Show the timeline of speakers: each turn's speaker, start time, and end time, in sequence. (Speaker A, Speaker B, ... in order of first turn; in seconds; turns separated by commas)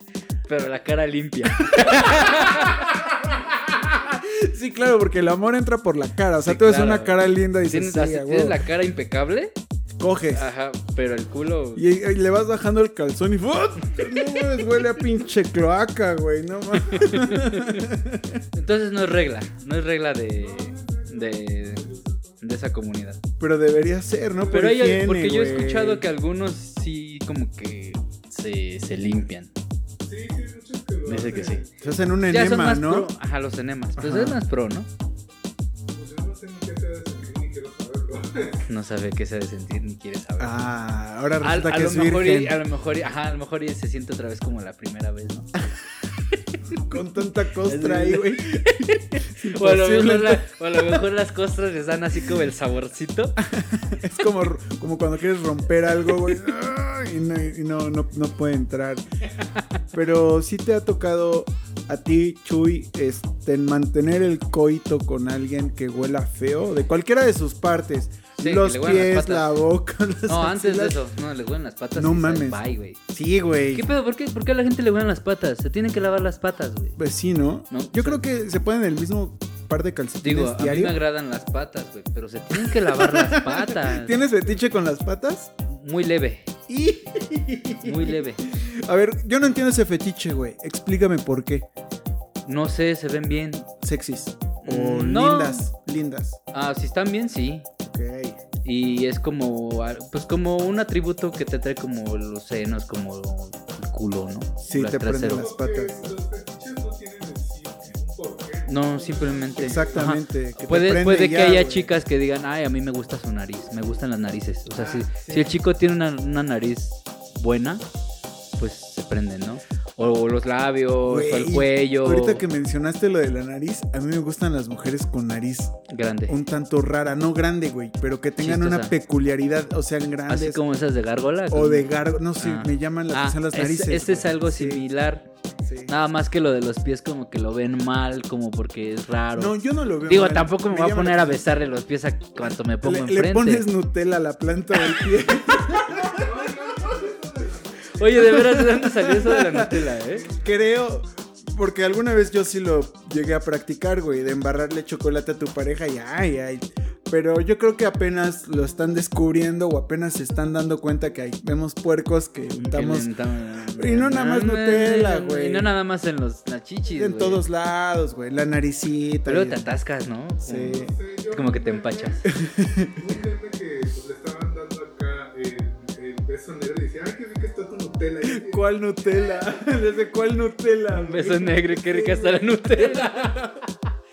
Speaker A: 0.5-2.9, Speaker B: 1.6-8.6, Speaker A: 6.4-9.5, Speaker B: 10.0-10.5, Speaker A: 10.3-11.8, Speaker B: 11.8-18.4, Speaker A: 16.9-17.9, Speaker A: 18.5-23.2, Speaker C: 20.4-22.4, Speaker B: 23.4-26.1, Speaker A: 24.5-29.5, Speaker C: 30.0-31.9, Speaker A: 31.1-31.6, Speaker B: 31.8-33.1, Speaker A: 32.3-34.9, Speaker B: 34.0-34.4, Speaker C: 35.9-38.6, Speaker A: 38.7-40.6, Speaker B: 40.4-42.6, Speaker A: 41.4-45.5, Speaker A: 46.3-46.8, Speaker B: 46.8-51.0, Speaker A: 47.6-53.4, Speaker B: 53.4-59.0, Speaker B: 59.9-71.0, Speaker A: 68.4-69.5, Speaker A: 70.3-73.0, Speaker B: 71.9-73.8, Speaker A: 73.7-77.0, Speaker B: 77.0-81.0, Speaker A: 77.7-78.2, Speaker A: 80.2-84.2, Speaker B: 82.5-85.5, Speaker A: 85.7-86.5, Speaker B: 86.7-91.7, Speaker A: 87.8-88.4, Speaker A: 92.5-93.6, Speaker B: 93.7-96.4, Speaker A: 94.6-95.7, Speaker A: 96.5-97.7, Speaker B: 97.8-98.4, Speaker A: 98.6-105.5, Speaker B: 104.6-106.0, Speaker C: 105.3-110.1, Speaker A: 108.7-117.8, Speaker B: 109.6-111.9, Speaker B: 114.7-115.6, Speaker A: 118.6-122.4, Speaker B: 121.0-130.6, Speaker A: 125.9-126.4, Speaker A: 128.4-128.9, Speaker A: 130.3-135.3, Speaker B: 131.5-134.8, Speaker B: 135.6-135.9, Speaker A: 135.9-143.7, Speaker B: 139.3-141.4, Speaker B: 142.8-146.5, Speaker C: 146.0-148.3, Speaker A: 147.9-150.3, Speaker B: 148.1-163.1, Speaker C: 150.1-150.5, Speaker A: 162.6-167.4, Speaker B: 163.7-165.7, Speaker B: 166.9-169.7, Speaker A: 169.2-172.2, Speaker B: 170.4-170.9, Speaker C: 170.6-172.3, Speaker B: 172.3-173.0, Speaker C: 172.9-178.7, Speaker B: 178.2-183.7, Speaker A: 180.9-183.5